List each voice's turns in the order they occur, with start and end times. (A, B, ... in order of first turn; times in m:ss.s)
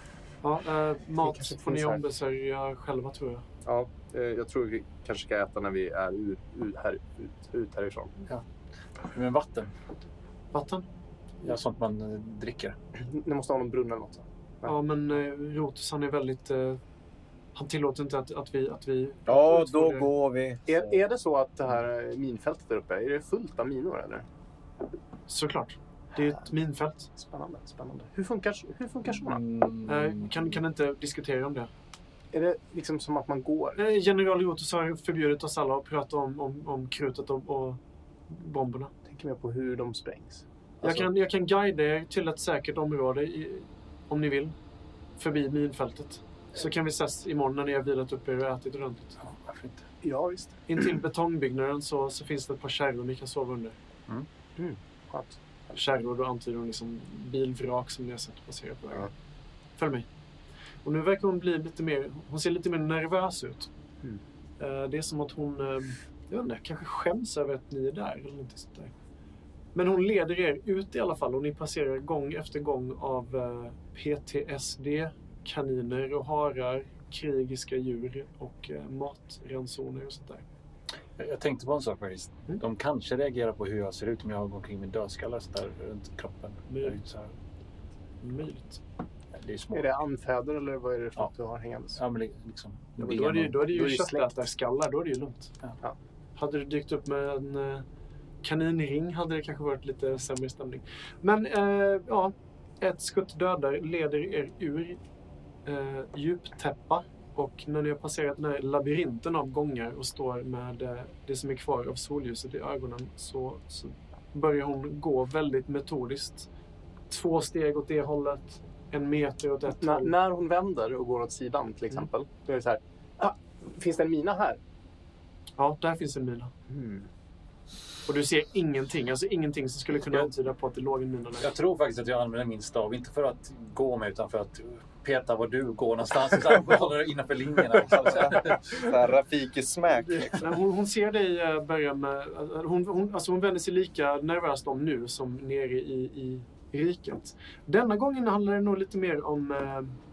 0:00.4-0:03.4 A
0:01.2-0:02.0 B
0:03.6-0:08.2 B
0:09.0-0:09.7 C
0:10.5-0:10.8 A
0:11.4-0:12.8 C
0:13.0-0:14.7 B
0:14.6-0:16.8 A
0:17.5-0:20.1 A
0:19.3-0:20.9 D
0:20.7-0:24.2 B
0:25.3-0:27.1 A
0:27.1-0:29.5 B
0:29.6-0:29.9 D
0:29.8-0:31.7 A
0:32.3-0:33.8 B
0:33.8-0:38.9 A
0:39.0-0:41.1 B
0:40.8-0:44.5 A
0:45.2-0:49.2 A
0:49.2-0:49.8 C
0:50.0-0:50.6 B
0:50.7-0:53.8 A
0:54.6-0:55.4 B
0:55.7-0:59.1 A
0:59.8-1:00.1 A
1:00.8-1:03.7 A
1:04.6-1:08.9 A
1:09.7-1:20.4 A
1:21.2-1:27.3 C
1:26.7-1:27.0 A
1:28.2-1:28.8 A
1:29.3-1:29.9 C
1:29.7-1:32.0 B
1:32.0-1:33.6 C
1:33.0-1:35.5 A
1:33.6-1:34.3 B
1:36.4-1:37.8 A
1:38.4-1:45.0 A
1:45.6-1:56.5 A
1:57.1-2:00.1 A
1:59.8-2:04.6 B
2:05.6-2:06.5 A
2:06.7-2:07.1 B
2:08.0-2:11.5 A
2:11.4-2:18.9 C
2:17.9-2:20.5 E
2:20.0-2:30.0 A